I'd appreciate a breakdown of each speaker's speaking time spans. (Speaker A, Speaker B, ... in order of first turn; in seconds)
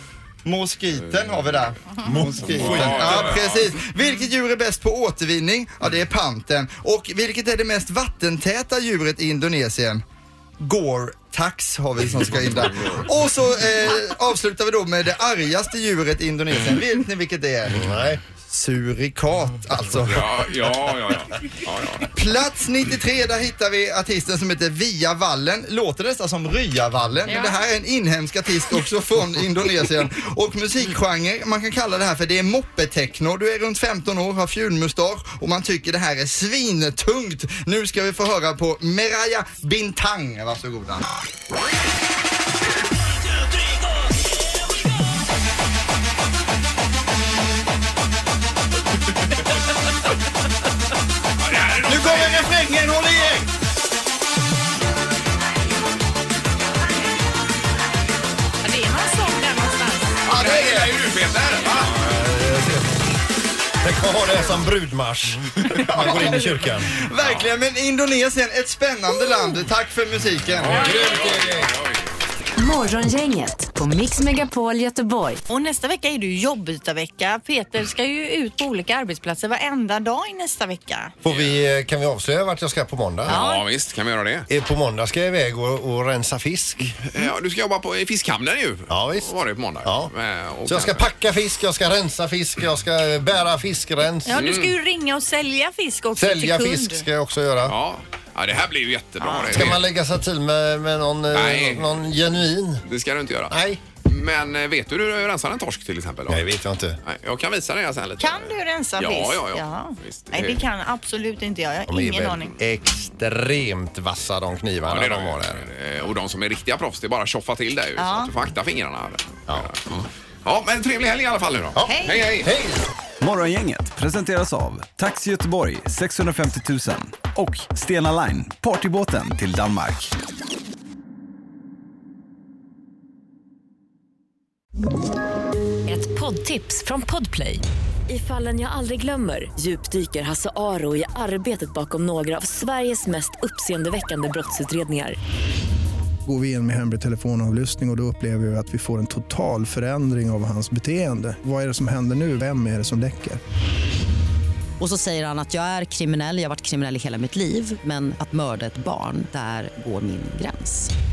Speaker A: 0.5-10.0, 10.6-17.8, 18.4-20.4, 22.1-41.0, 51.9-53.5, 60.3-60.9, 65.9-70.8
Speaker B: 0.9-1.8, 2.4-3.7, 20.1-22.1, 51.4-52.6, 60.3-62.0, 67.2-67.5, 70.6-72.1, 81.2-81.6, 83.3-84.5, 87.0-91.0, 94.4-94.7, 97.7-99.8, 101.3-102.0, 102.9-106.5, 107.0-110.6, 114.8-122.5
Speaker C: 2.0-3.4, 17.8-18.2, 61.9-62.9, 63.8-66.9, 70.7-71.7, 81.2-83.4, 84.5-87.0, 88.9-89.3, 89.8-90.1, 90.7-94.4, 96.2-97.8, 99.5-102.8, 103.5-103.8, 106.3-107.0, 111.9-115.7, 121.8-122.9
Speaker D: 27.3-27.6, 58.6-60.2, 75.5-81.1, 83.3-83.6, 94.3-97.1, 99.2-99.7, 108.2-112.6, 118.0-118.3, 121.8-122.3
Speaker E: 72.6-75.4
Speaker F: 123.2-130.1
Speaker G: 135.9-145.2
Speaker H: 146.3-153.4
Speaker I: 154.8-160.9